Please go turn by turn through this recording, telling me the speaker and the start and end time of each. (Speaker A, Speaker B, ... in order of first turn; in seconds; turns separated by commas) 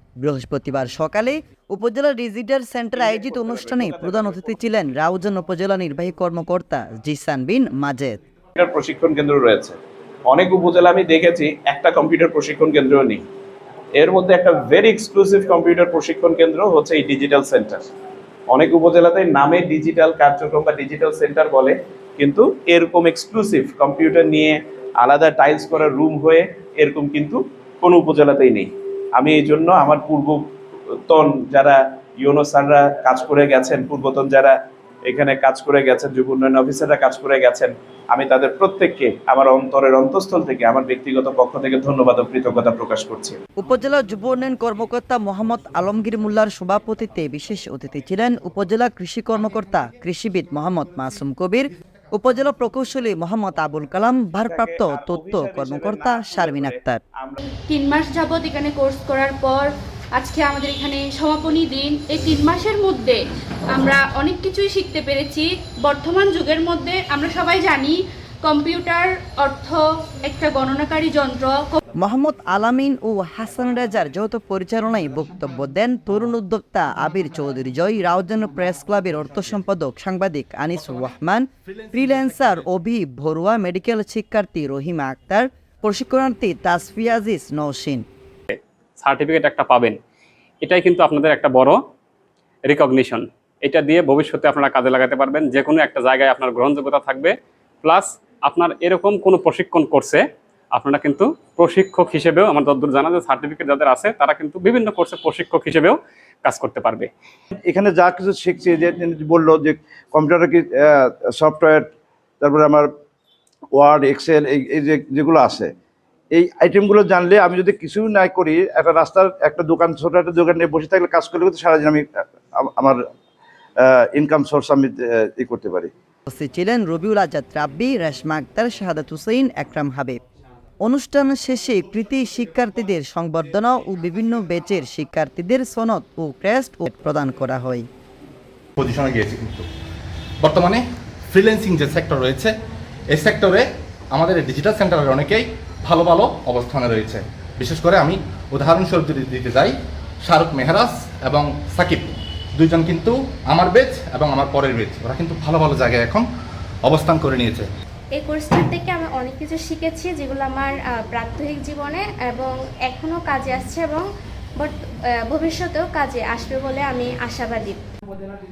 Speaker A: 0.2-8.2, Speaker B: 2.9-4.7, Speaker B: 8.6-9.8, Speaker B: 10.3-13.2, Speaker B: 14.0-17.9, Speaker B: 18.5-30.4, Speaker B: 31.1-34.5, Speaker B: 35.1-43.4, Speaker A: 43.6-57.0, Speaker B: 54.4-57.4, Speaker C: 57.7-63.2, Speaker C: 63.7-71.7, Speaker A: 72.0-88.0, Speaker D: 88.5-90.0, Speaker D: 90.6-91.8, Speaker D: 92.7-100.2, Speaker D: 100.8-107.1, Speaker E: 107.7-111.9, Speaker E: 112.4-112.9, Speaker E: 113.8-115.7, Speaker E: 116.3-122.1, Speaker E: 122.6-123.0, Speaker E: 123.8-125.9, Speaker A: 126.3-130.2, Speaker A: 130.8-137.9, Speaker F: 138.8-139.7, Speaker F: 140.4-142.5, Speaker F: 143.1-149.7, Speaker F: 150.3-156.3, Speaker F: 156.9-157.7, Speaker G: 158.2-167.8